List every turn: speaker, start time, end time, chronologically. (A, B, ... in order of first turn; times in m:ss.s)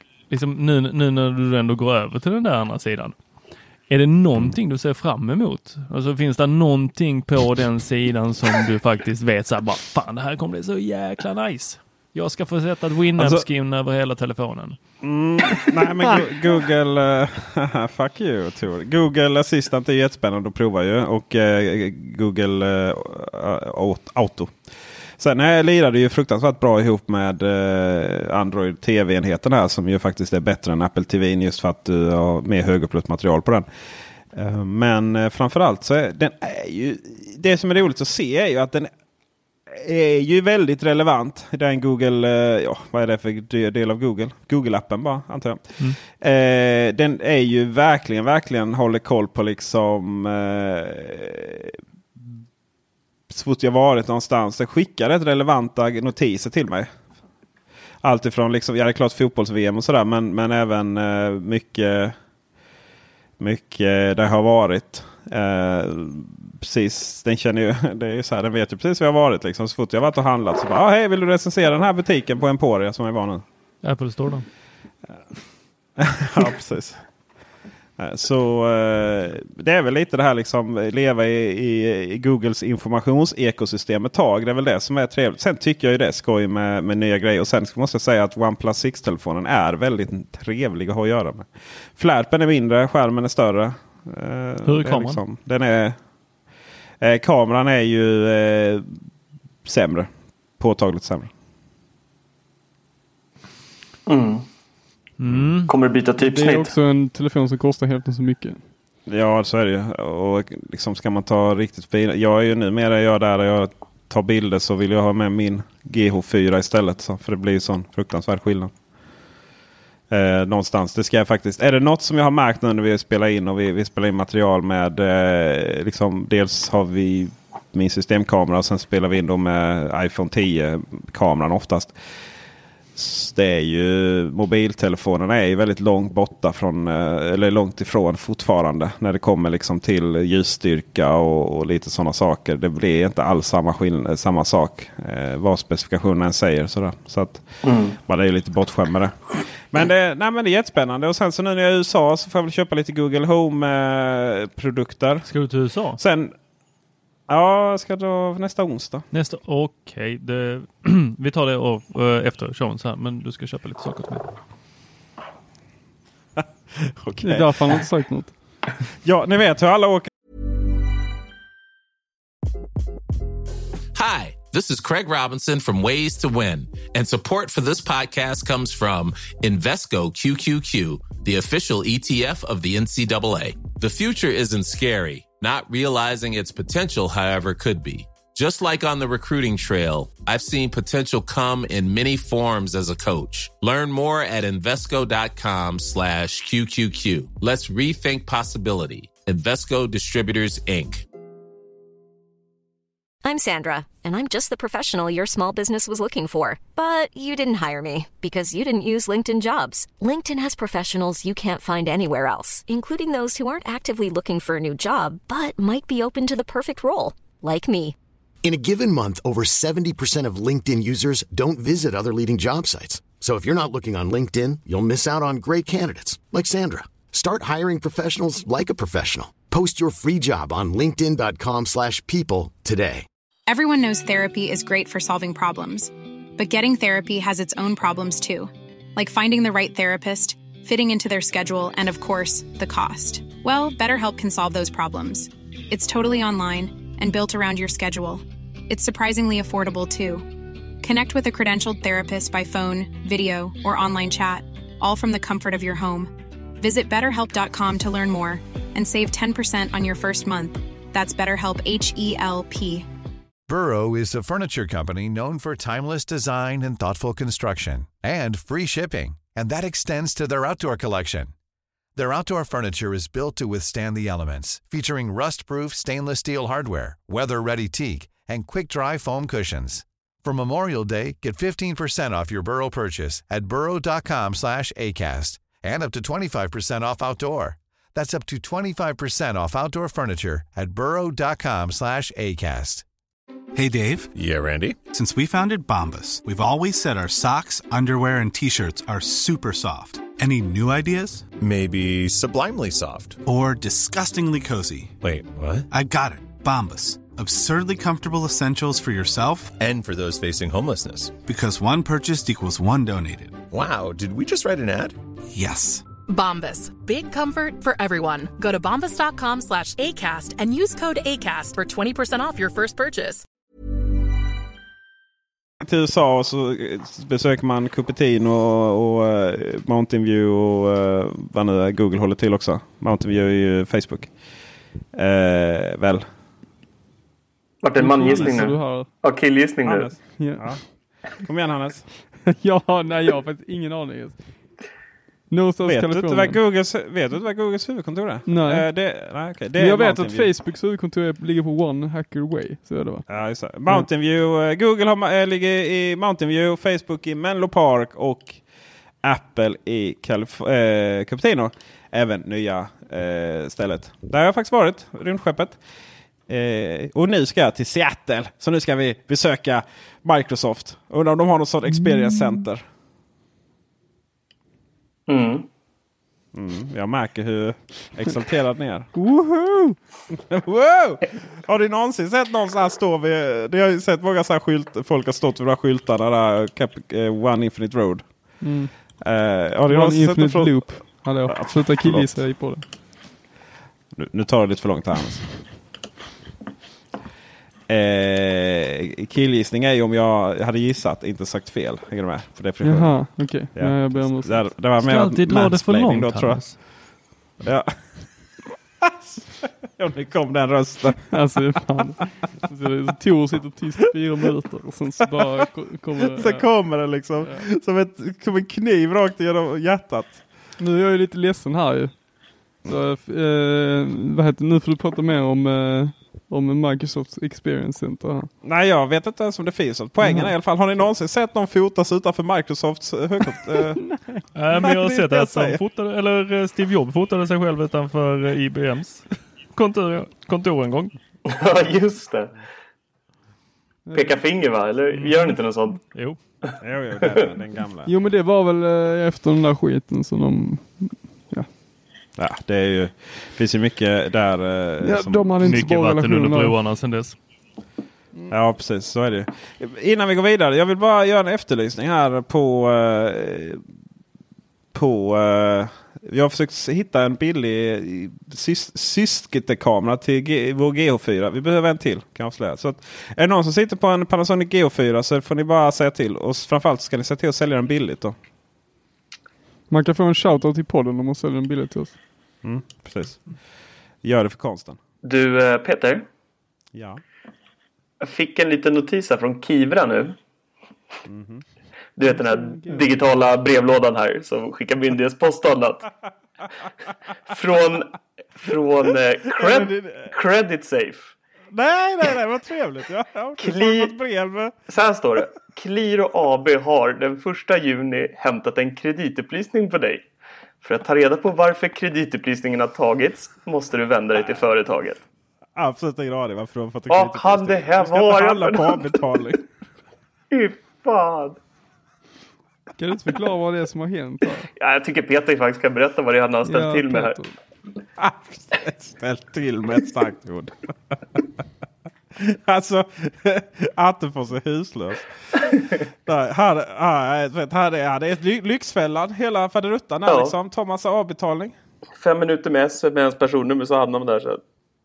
0:00.3-0:03.1 A
0:03.9-0:14.8 A
0:13.2-0:13.4 B
0:15.0-0:24.6 B
0:25.2-0:33.7 B
0:34.3-0:38.9 B
0:39.7-0:51.8 B
0:53.3-0:56.9 B
0:58.0-1:02.2 B
1:03.4-1:13.4 B
1:13.8-1:14.5 A
1:16.0-1:17.0 B
1:18.0-1:36.0 B
1:34.6-1:35.2 A
1:37.0-1:38.9 B
1:39.6-1:41.3 B
1:44.1-1:44.4 C
1:45.2-1:45.7 A
1:45.3-1:45.5 B
1:45.6-1:46.7 C
1:46.2-1:48.6 D
1:49.1-1:58.7 B
2:00.1-2:12.0 B
2:12.9-2:35.3 B
2:27.6-2:28.0 C
2:35.2-2:36.0 A
2:36.0-2:36.3 B
2:37.3-2:39.0 B
2:39.1-2:44.2 A
2:46.4-2:47.8 B
2:47.2-2:48.3 D
2:49.0-2:50.1 B
2:53.9-3:21.0 E
3:23.2-3:38.0 F
3:38.4-3:53.0 G
3:53.5-4:10.3 H
4:10.8-4:22.8 H
4:23.5-4:31.3 I
4:31.9-4:52.8 I
4:53.5-4:54.1 J
4:54.1-4:54.8 K
4:54.9-5:01.3 J
5:01.4-5:03.2 K
5:03.2-5:05.0 J
5:05.0-5:05.7 K
5:05.7-5:09.5 J
5:09.6-5:11.1 K
5:11.2-5:13.4 J
5:13.5-5:15.0 K
5:15.3-5:15.8 J
5:16.1-5:23.2 L
5:25.6-5:34.1 B
5:34.9-5:36.0 B
5:37.6-5:39.9 C
5:37.8-5:38.9 D
5:38.1-5:38.5 B
5:39.6-5:40.6 B
5:40.2-5:40.4 D
5:41.2-5:41.8 B
5:42.4-5:44.2 D
5:45.3-5:46.4 D
5:45.6-5:50.3 B
5:48.2-5:48.6 D
5:49.6-5:53.0 D
5:53.1-5:58.4 B
5:59.0-6:05.6 B
6:06.3-6:12.6 B
6:11.7-6:12.4 D
6:15.1-6:15.4 C
6:16.3-6:18.9 B
6:18.9-6:19.8 D
6:20.1-6:28.3 B
6:28.4-6:28.7 D
6:29.0-6:32.2 B
6:29.7-6:32.6 D
6:33.9-6:35.4 B
6:37.7-6:46.6 B
6:42.6-6:44.5 D
6:44.8-6:46.6 A
6:47.4-6:48.1 B
6:48.8-6:51.3 B
6:51.1-6:56.5 D
6:56.2-7:00.2 B
7:00.6-7:02.0 D
7:02.6-7:08.3 D
7:08.4-7:15.6 B
7:10.0-7:10.3 D
7:14.3-7:20.9 A
7:21.2-7:22.3 C
7:23.9-7:24.2 D
7:23.9-7:25.8 C
7:24.9-7:26.2 A
7:26.6-7:27.9 B
7:27.8-7:31.5 D
7:32.2-7:35.6 B
7:34.8-7:36.5 D
7:35.4-7:37.2 A
7:38.3-7:43.6 B
7:44.7-7:58.1 B
7:59.7-8:02.0 D
8:02.4-8:03.3 B
8:04.0-8:04.8 B
8:05.0-8:06.0 C
8:06.7-8:07.0 B
8:08.0-8:10.2 C
8:11.1-8:11.4 B
8:12.0-8:15.8 C
8:12.0-8:13.0 D
8:17.3-8:21.1 C
8:19.4-8:20.1 B
8:21.5-8:24.6 B
8:23.4-8:23.9 C
8:24.7-8:30.0 C
8:30.6-8:35.0 C
8:35.6-8:39.4 B
8:36.9-8:38.9 C
8:40.3-8:41.4 C
8:42.8-8:44.5 D
8:44.6-8:47.2 C
8:46.4-8:47.3 D
8:48.0-8:51.2 B
8:52.1-8:55.5 B
8:56.0-9:01.6 B
9:00.0-9:00.3 C
9:02.0-9:04.4 C